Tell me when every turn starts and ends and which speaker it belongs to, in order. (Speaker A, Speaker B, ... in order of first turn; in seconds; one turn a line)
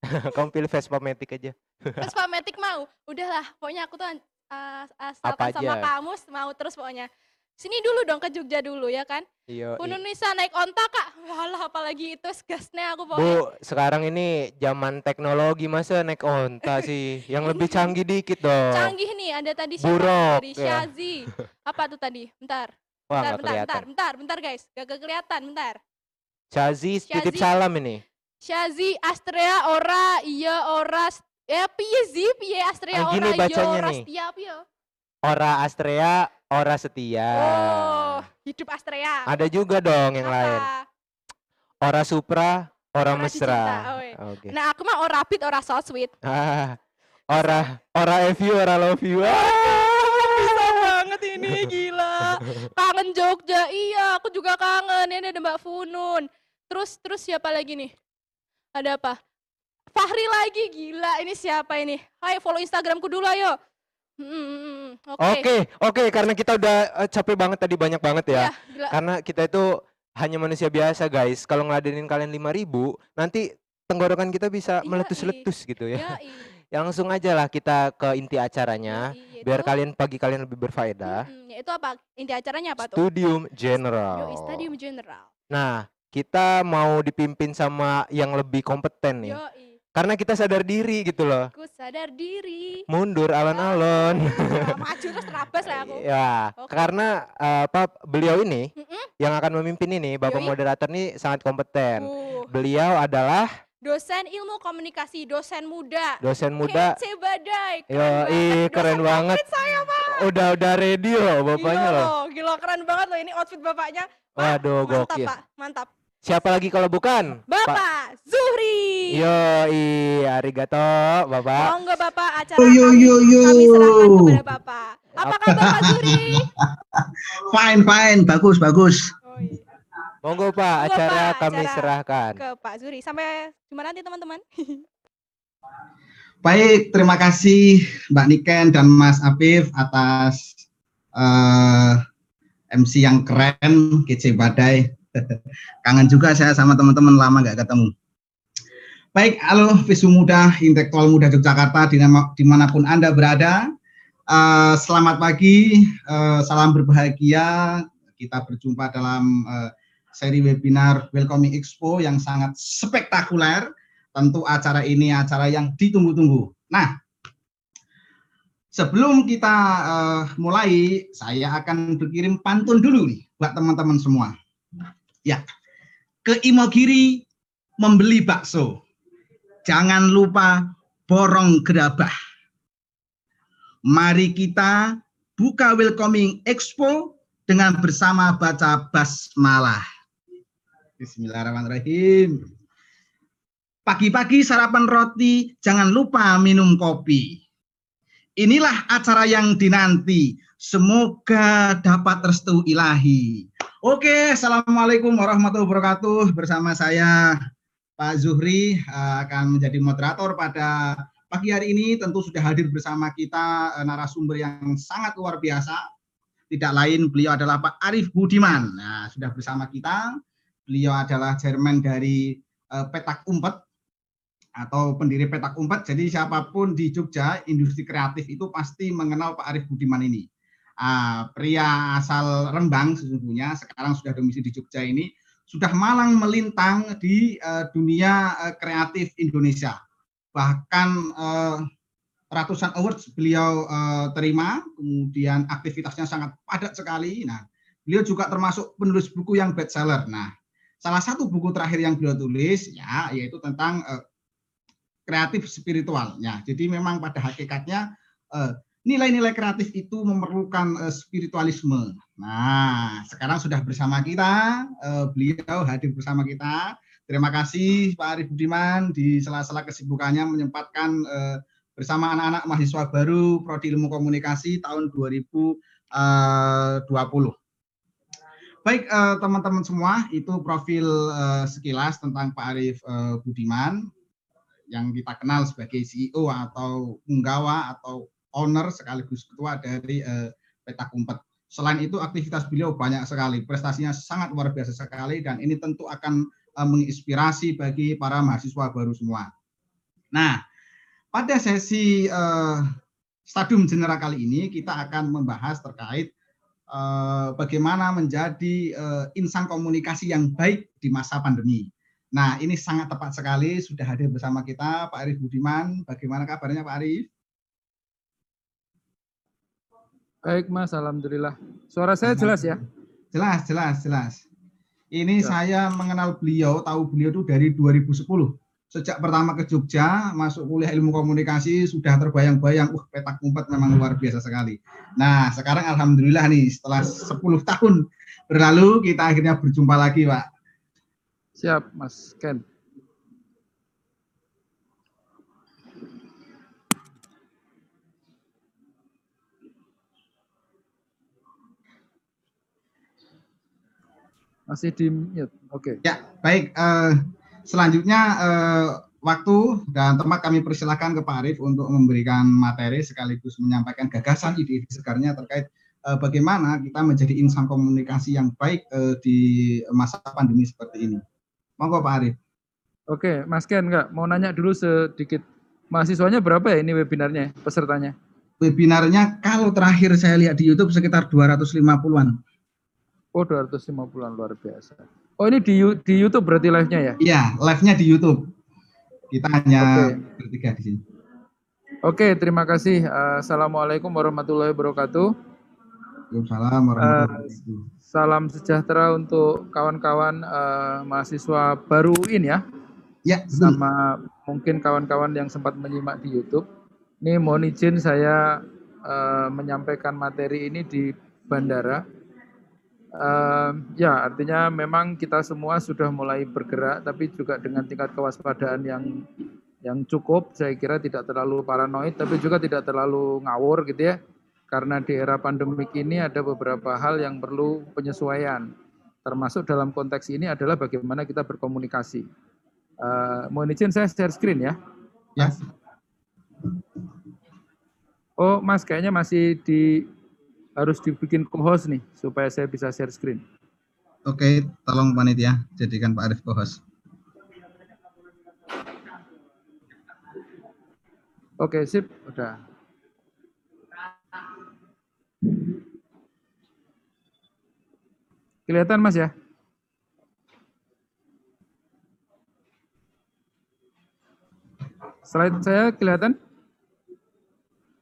Speaker A: 0.1-2.1
Speaker B: 2.0-7.1
Speaker A: 5.2-5.9
Speaker B: 7.6-9.2
Speaker A: 9.5-10.0
Speaker B: 9.8-13.4
Speaker A: 13.1-18.9
Speaker B: 17.4-17.9
Speaker B: 18.7-25.8
Speaker A: 19.8-20.9
Speaker A: 23.1-23.9
Speaker A: 26.5-28.0
Speaker B: 27.1-27.5
Speaker B: 28.4-34.6
Speaker A: 32.9-34.0
Speaker A: 35.2-38.2
Speaker B: 37.4-39.3
Speaker A: 39.3-40.7
Speaker B: 40.2-40.9
Speaker A: 41.8-44.5
Speaker B: 43.1-46.1
Speaker A: 46.2-46.8
Speaker A: 47.3-50.9
Speaker B: 49.3-57.9
Speaker B: 58.8-59.2
Speaker B: 59.9-63.6
Speaker B: 64.2-65.5
Speaker A: 65.2-69.7
Speaker B: 68.3-69.0
Speaker A: 70.2-81.2
Speaker B: 74.8-76.5
Speaker B: 78.9-79.7
Speaker B: 81.0-83.0
Speaker A: 82.8-84.7
Speaker B: 84.1-85.3
Speaker A: 85.5-89.4
Speaker B: 89.2-89.8
Speaker A: 89.9-91.5
Speaker B: 91.5-92.8
Speaker A: 92.9-98.7
Speaker B: 93.5-96.0
Speaker B: 96.6-96.9
Speaker B: 98.8-99.1
Speaker A: 99.2-103.5
Speaker B: 100.3-100.5
Speaker B: 102.0-102.5
Speaker B: 103.8-110.2
Speaker A: 106.2-107.0
Speaker A: 107.9-109.4
Speaker A: 110.0-112.1
Speaker B: 111.6-115.9
Speaker A: 114.4-115.3
Speaker A: 116.2-117.8
Speaker B: 117.5-119.2
Speaker A: 119.1-121.7
Speaker B: 121.6-126.5
Speaker C: 122.6-124.4
Speaker C: 125.5-129.1
Speaker B: 129.3-129.6
Speaker A: 130.2-132.4
Speaker B: 130.8-134.8
Speaker C: 136.4-140.5
Speaker C: 141.2-142.0
Speaker C: 142.7-147.9
Speaker C: 149.1-153.6
Speaker C: 154.3-166.9
Speaker C: 168.7-174.3
Speaker C: 176.2-177.2
Speaker C: 177.8-178.8
Speaker C: 179.7-182.1
Speaker C: 183.9-189.8
Speaker C: 191.0-192.4
Speaker C: 193.8-197.4
Speaker C: 198.4-207.4
Speaker C: 208.0-215.8
Speaker C: 216.5-220.2
Speaker C: 220.7-223.6
Speaker C: 224.6-230.2
Speaker C: 230.8-239.8
Speaker C: 240.3-241.7
Speaker C: 242.3-250.3
Speaker C: 250.8-254.0
Speaker C: 255.1-277.3
Speaker C: 278.6-283.9
Speaker C: 284.7-299.3
Speaker C: 300.1-300.4
Speaker C: 301.1-302.7
Speaker C: 303.3-306.1
Speaker C: 306.7-317.1
Speaker D: 320.2-322.6
Speaker C: 322.0-322.6
Speaker C: 323.1-324.2
Speaker C: 324.9-340.2
Speaker D: 341.4-342.4
Speaker D: 354.5-355.8
Speaker C: 355.8-371.0
Speaker C: 371.6-372.2
Speaker D: 372.9-377.9
Speaker C: 378.4-382.2
Speaker D: 383.1-387.0
Speaker C: 387.0-388.3
Speaker C: 389.1-390.8
Speaker D: 389.6-390.0
Speaker D: 391.8-395.1
Speaker C: 396.1-397.6
Speaker D: 396.8-397.3
Speaker D: 397.9-402.4
Speaker C: 403.1-403.6
Speaker D: 403.3-406.4
Speaker D: 407.0-411.8
Speaker D: 413.0-419.0
Speaker D: 419.6-424.0
Speaker D: 424.5-428.5
Speaker D: 429.0-432.1
Speaker D: 432.8-434.6
Speaker C: 435.2-435.4
Speaker D: 438.2-439.9
Speaker D: 440.6-443.2
Speaker C: 444.1-446.6
Speaker D: 451.4-452.4
Speaker D: 458.5-459.1
Speaker D: 465.1-466.1